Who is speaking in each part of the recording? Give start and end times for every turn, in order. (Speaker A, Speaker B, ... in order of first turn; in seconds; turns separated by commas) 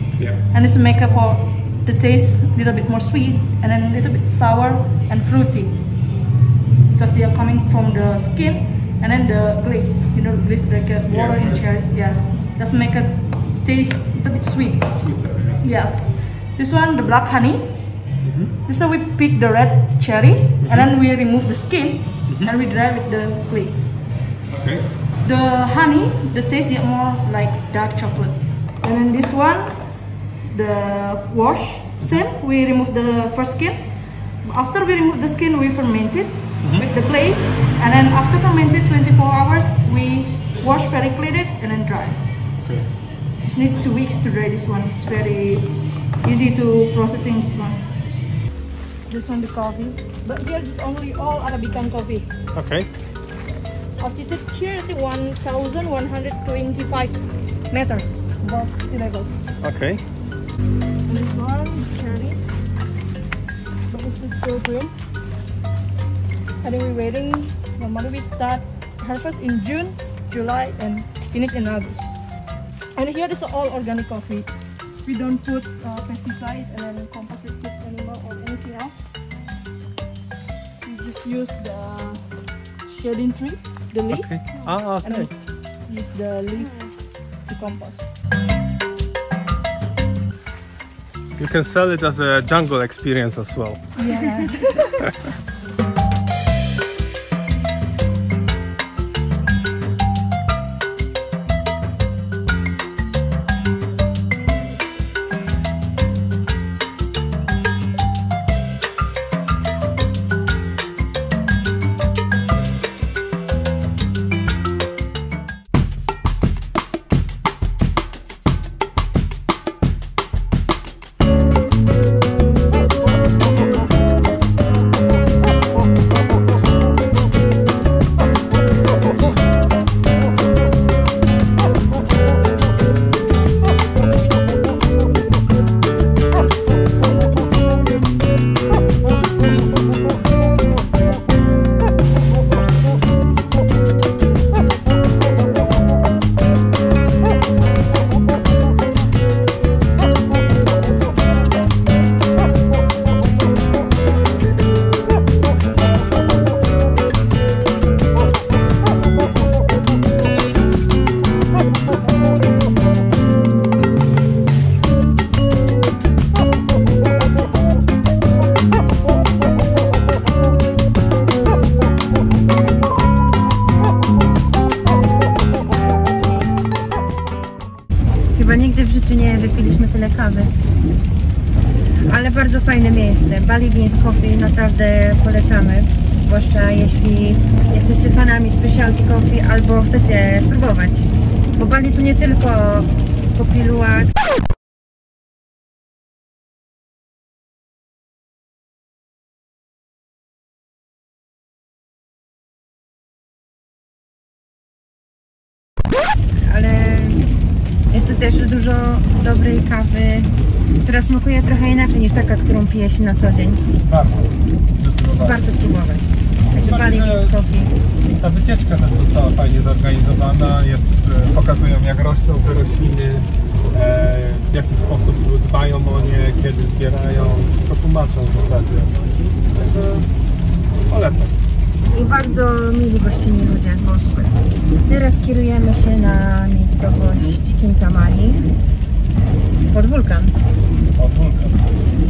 Speaker A: 0.2-0.4, Speaker B: 0.5-5.8, Speaker B: 6.9-15.0, Speaker A: 11.1-11.8, Speaker A: 14.9-15.7, Speaker B: 15.6-18.0, Speaker A: 18.2-18.6, Speaker B: 18.7-24.0, Speaker A: 20.6-20.9, Speaker A: 24.5-25.0, Speaker B: 25.2-29.8, Speaker B: 30.4-42.2, Speaker A: 42.6-42.9, Speaker B: 43.4-47.9, Speaker B: 49.1-52.4, Speaker A: 52.5-52.9, Speaker B: 54.0-59.3, Speaker A: 59.6-60.0, Speaker B: 61.1-62.5, Speaker B: 63.9-65.0, Speaker B: 66.6-72.2, Speaker B: 73.0-74.5, Speaker B: 75.0-79.2, Speaker B: 80.8-88.1, Speaker A: 84.1-85.3, Speaker A: 91.4-93.9, Speaker B: 94.0-95.0, Speaker C: 178.3-180.5, Speaker C: 182.1-194.2, Speaker C: 206.4-207.3, Speaker C: 207.9-210.3, Speaker C: 210.8-213.6, Speaker A: 213.9-215.5, Speaker C: 215.2-217.7, Speaker A: 216.5-217.4, Speaker A: 218.2-229.0, Speaker A: 229.5-230.1, Speaker A: 230.9-231.4, Speaker C: 231.9-238.5, Speaker C: 239.7-240.4, Speaker A: 240.9-241.8